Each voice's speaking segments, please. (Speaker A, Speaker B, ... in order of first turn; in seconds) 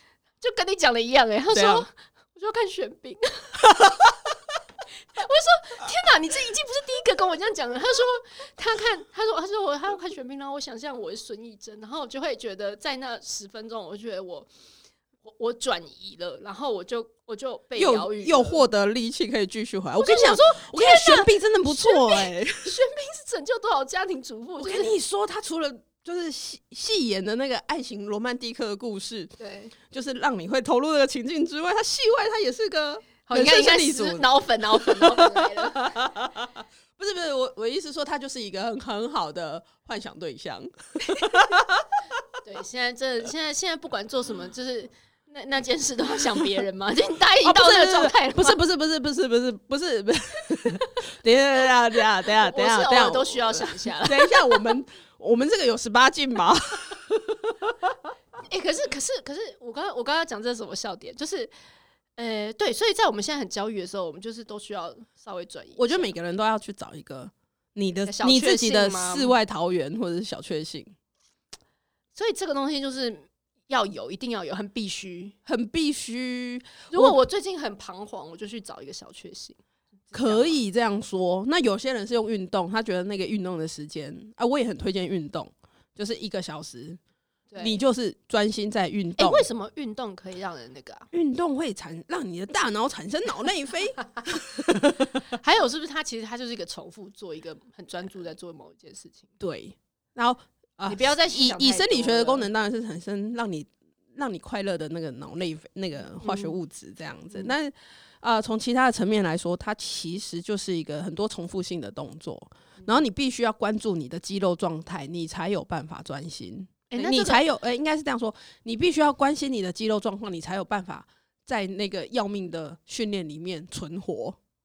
Speaker A: 0.4-3.6, 5.0-14.5, 15.2-18.6, 20.0-25.0, 29.4-29.7, 33.2-36.0, 42.4-48.6, 52.2-54.6, 58.5-61.5, 62.2-66.1, 68.1-69.3, 72.1-75.3, 76.9-80.6, 87.5-87.8, 89.2-91.1, 95.3-99.3, 100.9-102.5, 106.2-106.5, 116.9-117.5
Speaker B: 1.5-1.9, 3.6-4.1, 17.8-22.8, 24.6-42.0, 47.4-57.9, 65.8-71.0, 75.5-77.2, 80.1-87.0, 87.6-89.5, 91.1-95.3, 99.4-124.4